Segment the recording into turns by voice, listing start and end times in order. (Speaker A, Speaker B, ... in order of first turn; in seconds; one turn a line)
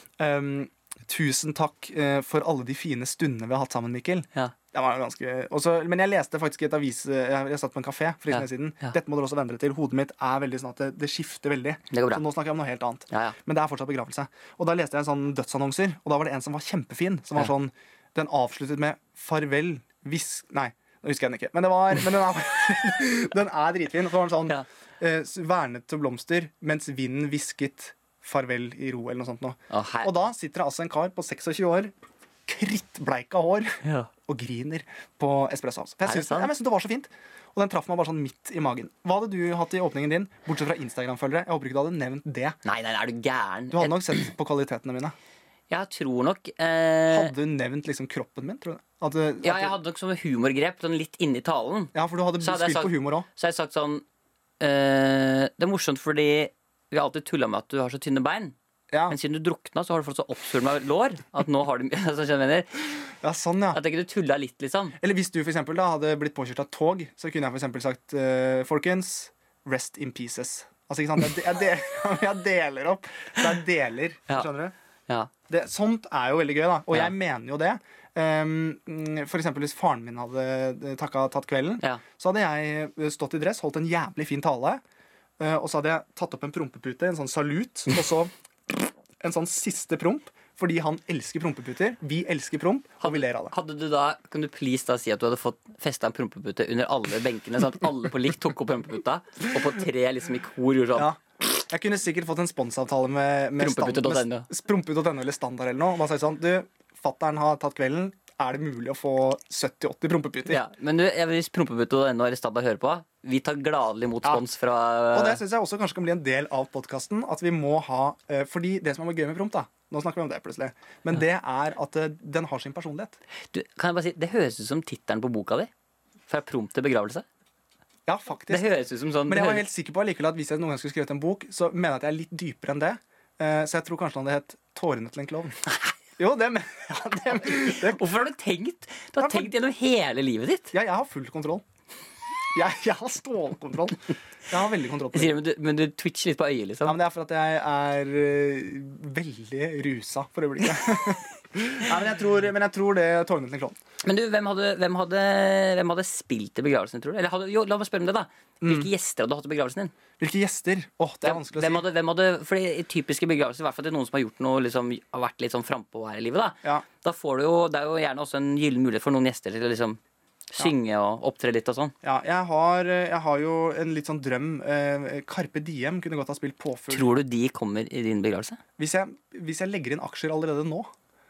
Speaker A: 0.2-31.9
Speaker B: 8.3-9.0
Speaker B: 11.9-12.2
Speaker B: 29.7-30.1
Speaker A: 32.5-42.6
Speaker B: 33.8-34.1
Speaker B: 36.0-36.5
Speaker B: 42.6-44.2
Speaker A: 43.7-45.1
Speaker B: 45.7-47.3
Speaker A: 47.1-49.8
Speaker B: 49.4-54.0
Speaker A: 51.9-53.3
Speaker B: 54.6-58.5
Speaker A: 58.9-59.2
Speaker B: 59.1-62.9
Speaker A: 63.2-63.8
Speaker B: 63.7-65.0
Speaker A: 65.0-74.7
Speaker A: 75.5-84.8
Speaker A: 85.4-93.5
Speaker B: 93.0-101.1
Speaker A: 101.0-110.6
Speaker B: 103.6-104.5
Speaker B: 110.5-115.4
Speaker A: 115.1-123.2
Speaker B: 123.5-125.7
Speaker B: 126.3-127.2
Speaker A: 128.1-128.7
Speaker B: 128.5-129.6
Speaker A: 129.3-135.7
Speaker A: 136.2-138.0
Speaker B: 137.4-140.7
Speaker A: 139.2-139.5
Speaker A: 140.7-141.6
Speaker A: 142.5-145.3
Speaker B: 145.1-147.0
Speaker A: 146.8-153.8
Speaker B: 154.0-159.9
Speaker A: 158.6-158.9
Speaker A: 160.2-161.8
Speaker B: 161.2-171.9
Speaker A: 172.0-177.1
Speaker B: 176.9-178.6
Speaker A: 178.8-180.9